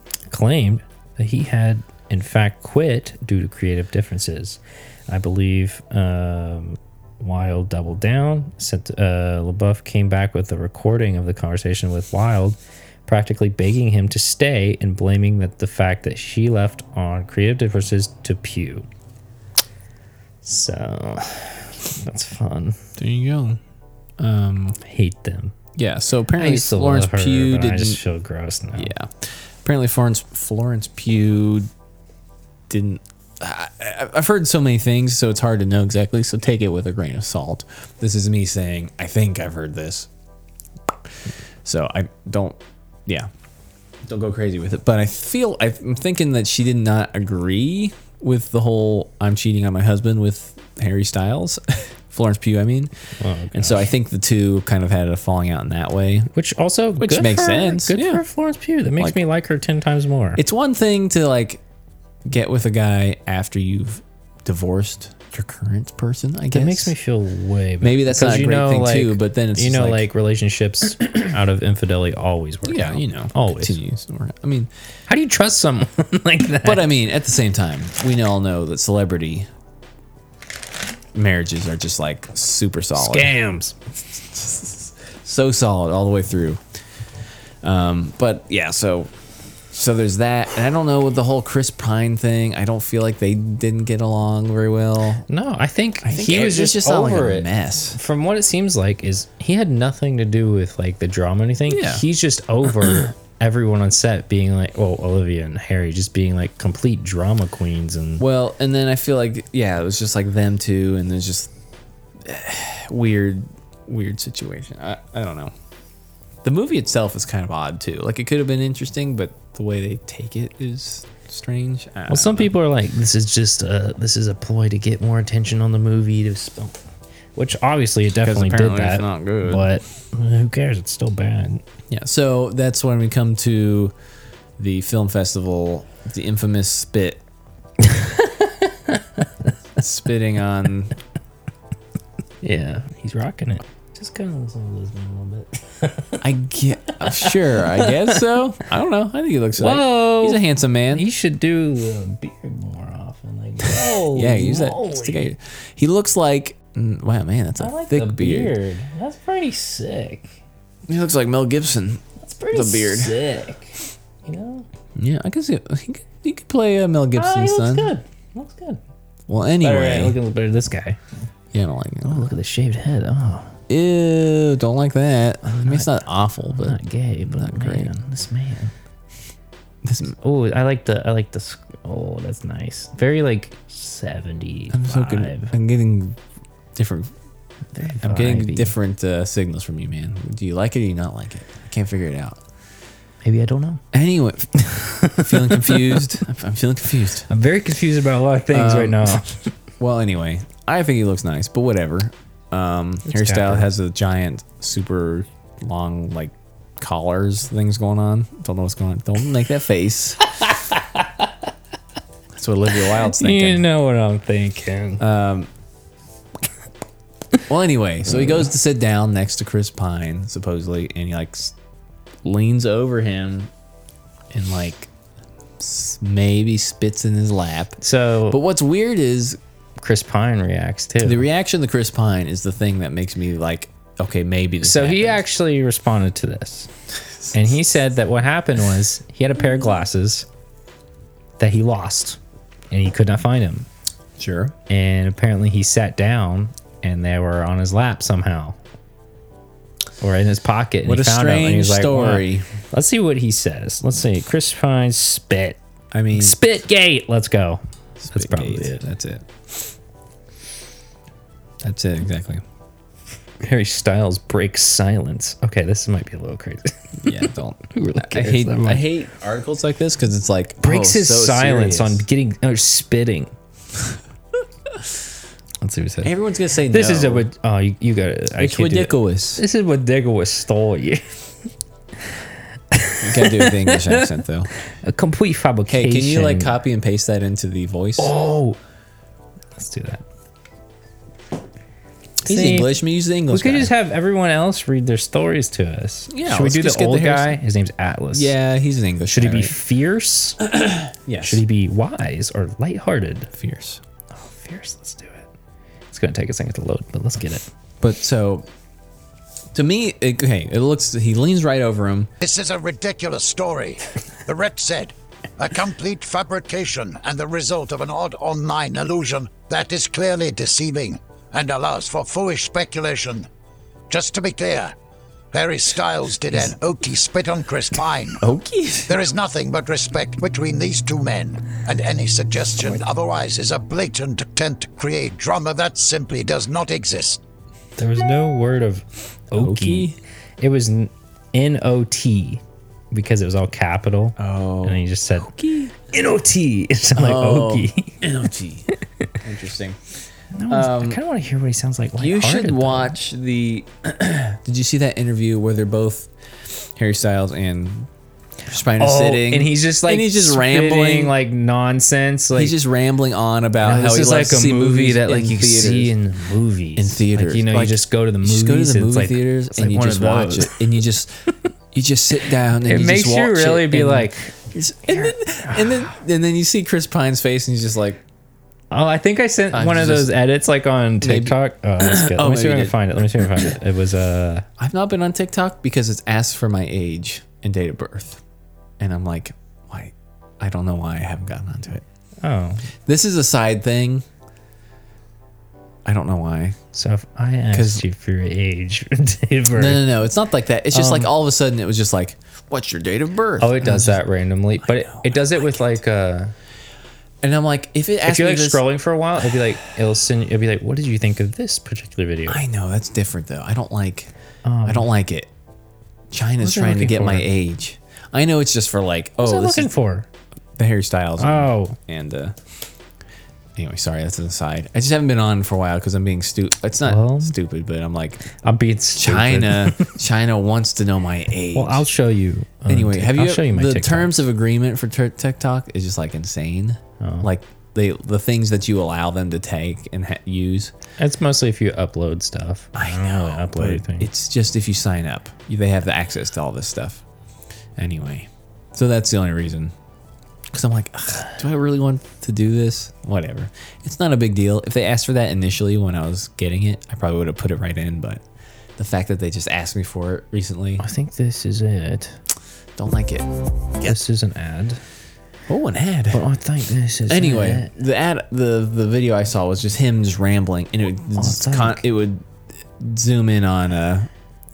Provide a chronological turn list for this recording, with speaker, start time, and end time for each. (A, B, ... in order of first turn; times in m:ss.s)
0:00.3-0:18.9 A
0:20.4-0:22.8 A
0:23.0-0:23.6 B
0:24.2-0:24.8 B
0:24.8-0:25.6 A
0:25.8-0:28.0 B
0:26.4-0:28.9 A
0:28.8-0:31.7 B
0:32.7-0:40.1 B
0:41.6-0:43.3 B
0:44.1-0:52.9 B
0:53.2-0:53.9 A
0:53.5-0:56.3 B
0:56.3-1:00.4 A
0:57.0-0:58.2 B
1:00.4-1:01.6 B
1:02.3-1:06.9 B
1:06.5-1:13.8 A
1:07.8-1:10.1 B
1:12.7-1:14.7 B
1:15.1-1:16.9 A
1:16.6-1:19.5 B
1:21.1-1:23.4 B
1:23.0-1:23.8 A
1:24.4-1:26.6 B
1:27.6-1:29.1 B
1:29.7-1:35.3 B
1:35.3-1:48.2 A
1:36.0-1:38.0 B
1:41.7-1:42.0 B
1:48.2-1:51.5 B
1:52.2-1:55.5 B
1:56.4-2:02.5 B
2:02.1-2:06.8 A
2:07.4-2:11.6 A
2:08.2-2:09.7 B
2:11.9-2:13.9 B
2:14.6-2:17.2 B
2:17.8-2:19.5 A
2:19.8-2:21.0 B
2:22.4-2:26.2 A
2:26.2-2:31.1 B
2:27.0-2:28.2 A
2:29.6-2:35.2 A
2:33.7-2:38.6 B
2:37.6-2:40.4 A
2:40.9-2:42.0 B
2:42.2-2:44.7 A
2:42.5-2:43.2 B
2:45.0-2:47.9 B
2:47.1-2:48.8 A
2:49.3-2:50.2 B
2:49.6-2:51.0 A
2:51.5-2:52.2 B
2:52.1-2:53.6 A
2:53.7-2:57.9 B
2:55.5-2:56.0 A
2:56.5-2:58.7 A
2:59.8-3:00.2 B
3:00.2-3:05.5 A
3:04.7-3:06.2 B
3:06.8-3:07.1 B
3:07.7-3:08.8 A
3:07.9-3:12.4 B
3:13.2-3:13.8 A
3:13.9-3:17.3 B
3:14.6-3:16.0 A
3:17.3-3:19.5 A
3:18.5-3:19.2 B
3:19.8-3:30.3 B
3:23.1-3:23.7 A
3:30.4-3:31.3 A
3:32.4-3:33.6 B
3:32.9-3:35.0 A
3:35.0-3:35.5 B
3:37.5-3:41.5 B
3:38.1-3:38.5 A
3:42.2-3:43.5 B
3:44.3-3:44.9 B
3:45.6-3:49.4 B
3:47.8-3:48.4 A
3:49.8-3:51.2 A
3:51.0-3:55.2 B
3:54.6-3:56.7 A
3:57.3-4:00.3 A
4:01.4-4:02.2 A
4:02.7-4:03.7 A
4:04.2-4:04.6 B
4:04.7-4:08.6 A
4:10.0-4:15.6 A
4:10.9-4:12.5 B
4:15.9-4:16.4 B
4:16.1-4:18.8 A
4:18.0-4:19.3 B
4:21.6-4:22.4 B
4:23.4-4:28.9 A
4:27.0-4:32.0 B
4:30.6-4:33.3 A
4:35.6-4:36.1 A
4:36.0-4:37.3 B
4:36.7-4:41.2 A
4:38.4-4:39.4 B
4:42.7-4:44.1 A
4:43.0-4:44.5 B
4:44.7-4:46.6 A
4:45.7-4:48.1 B
4:48.0-4:48.6 A
4:49.6-4:50.0 A
4:52.2-4:53.7 B
4:52.2-4:52.8 A
4:53.3-4:58.4 A
4:56.1-4:57.4 B
4:58.1-4:59.5 B
4:59.1-5:00.5 A
5:00.4-5:01.4 B
5:01.2-5:03.3 A
5:03.3-5:03.8 B
5:04.1-5:05.3 A
5:05.9-5:07.5 A
5:07.8-5:08.5 B
5:09.5-5:12.1 B
5:12.2-5:23.3 C
5:23.9-5:24.7 C
5:25.3-5:28.2 C
5:28.2-5:29.0 B
5:28.9-5:37.2 C
5:37.8-5:48.0 A
5:39.4-5:40.0 B
5:44.2-5:45.8 B
5:46.9-5:49.8 B
5:48.7-5:49.1 A
5:50.3-5:53.0 A
5:50.5-5:51.0 B
5:52.0-5:57.9 B
5:58.5-6:01.1 B
5:58.5-6:02.6 A
6:02.3-6:05.9 B
6:03.6-6:10.6 A
6:06.8-6:11.1 B
6:11.7-6:18.0 B
6:12.6-6:15.9 A
6:18.7-6:24.5 A
6:19.5-6:20.2 B
6:21.0-6:23.4 B
6:24.6-6:28.2 B
6:28.8-6:31.8 B
6:32.2-6:32.6 A
6:32.9-6:34.1 B
6:35.8-6:36.6 B
6:36.7-6:40.1 A
6:37.5-6:37.8 B
6:39.6-6:44.0 B
6:40.7-6:41.1 A
6:43.4-6:46.3 A
6:44.7-6:45.2 B
6:47.2-6:48.6 B
6:48.0-6:52.4 A
6:52.3-6:54.1 B
6:54.4-6:54.9 A
6:54.7-6:55.3 B
6:56.1-6:59.7 B
6:56.4-6:57.3 A
6:59.2-7:00.1 A
7:00.6-7:02.4 B
7:01.2-7:01.8 A
7:03.6-7:08.3 B
7:06.8-7:07.4 A
7:08.4-7:09.9 A
7:09.0-7:11.9 B
7:11.5-7:14.2 A
7:12.7-7:20.7 B
7:17.0-7:17.3 A
7:21.0-7:24.1 A
7:22.8-7:27.0 B
7:27.8-7:29.7 B
7:30.5-7:38.2 B
7:38.8-7:40.9 B
7:40.8-7:42.2 A
7:42.8-7:44.0 B
7:43.8-7:44.8 A
7:45.5-7:46.2 B
7:46.1-7:47.7 A
7:47.1-7:52.3 B
7:51.2-7:51.8 A
7:52.8-7:54.1 B